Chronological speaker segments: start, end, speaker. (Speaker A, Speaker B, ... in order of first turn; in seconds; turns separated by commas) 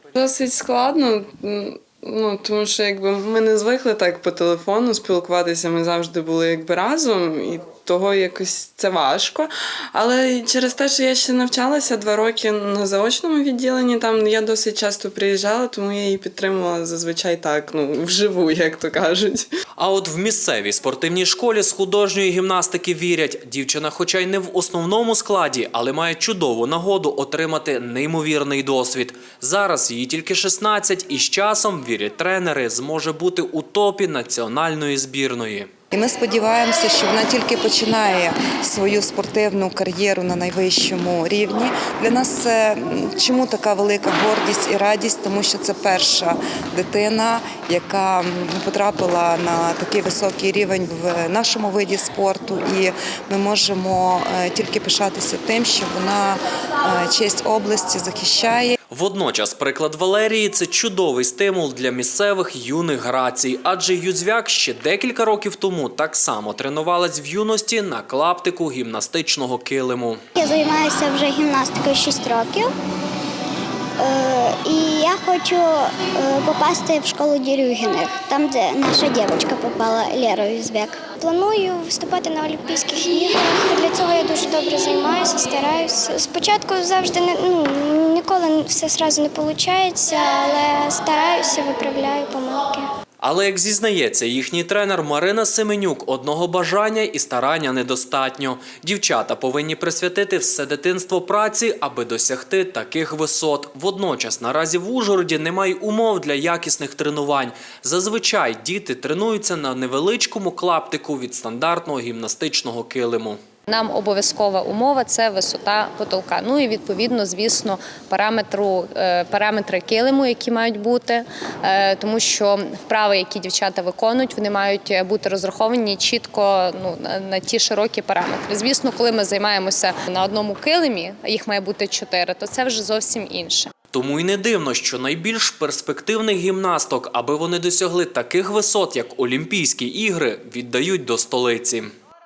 Speaker A: 0.1-19.4, Speaker B: 19.8-35.7, Speaker C: 35.9-58.7, Speaker B: 58.9-70.2, Speaker D: 70.3-72.7, Speaker D: 74.0-92.9, Speaker B: 93.2-113.4, Speaker E: 113.7-133.7, Speaker B: 133.9-141.9